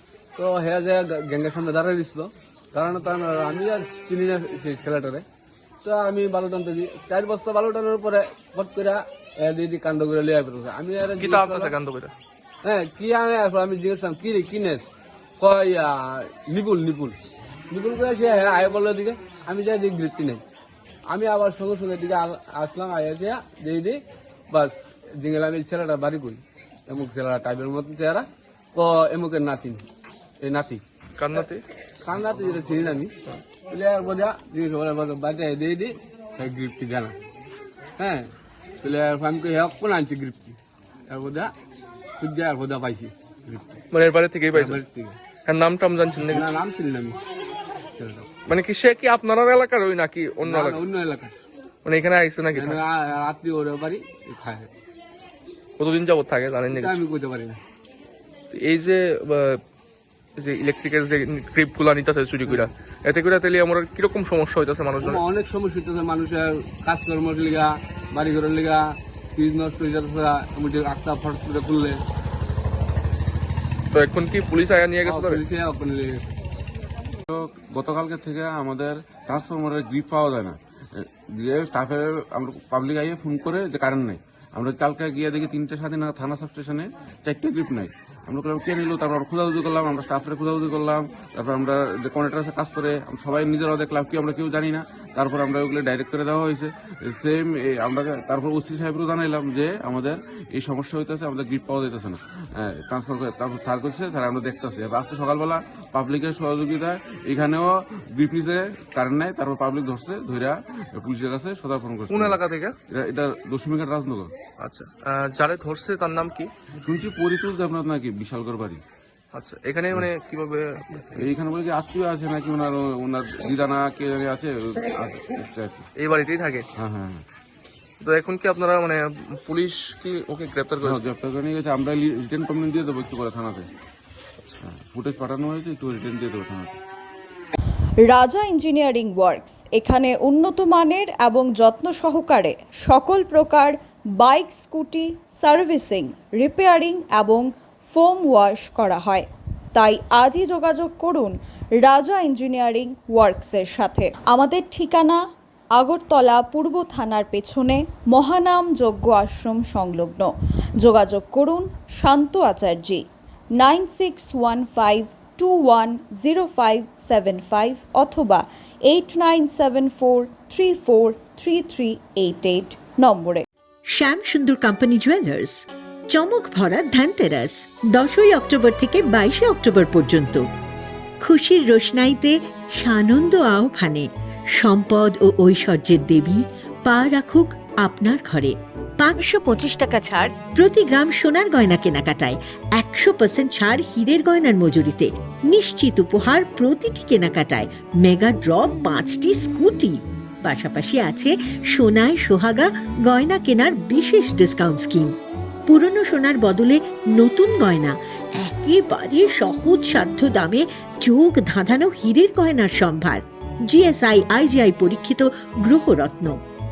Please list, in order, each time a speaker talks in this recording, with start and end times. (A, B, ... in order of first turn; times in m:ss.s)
0:00.4-0:05.2 A
0:05.8-0:11.7 A
0:11.2-0:12.1 B
0:12.6-0:14.8 A
0:15.4-0:17.2 A
0:17.7-0:20.4 A
0:21.1-0:29.8 A
0:30.4-0:30.8 A
0:31.2-0:31.6 B
0:32.0-0:33.1 A
0:33.7-0:37.2 A
0:38.0-0:38.3 A
0:38.8-0:40.6 A
0:41.1-0:41.5 A
0:42.2-0:43.8 A
0:43.9-0:44.8 B
0:44.5-0:45.2 A
0:45.4-0:46.5 B
0:46.3-0:47.2 A
0:48.0-0:48.3 A
0:48.4-0:50.8 B
0:50.4-0:51.3 A
0:51.8-0:52.8 B
0:52.5-0:54.7 A
0:55.8-0:57.0 B
0:56.7-0:57.6 A
0:58.5-0:59.6 B
1:00.4-1:05.2 B
1:05.0-1:12.0 A
1:13.9-1:15.4 B
1:15.0-1:16.2 A
1:17.3-1:54.3 C
1:52.1-1:52.8 B
1:54.6-1:56.5 B
1:56.8-1:58.8 C
1:59.3-2:01.3 B
2:01.2-2:05.9 C
2:06.0-2:06.6 B
2:06.8-2:07.2 C
2:08.0-2:11.0 B
2:10.8-2:13.7 C
2:14.6-2:16.8 C
2:18.0-2:35.2 D
2:35.8-2:40.3 D
2:40.8-2:43.0 D
2:43.6-2:53.4 D
2:53.9-3:00.4 E
3:01.2-3:04.1 E
3:04.6-3:25.1 E
3:25.7-3:36.4 E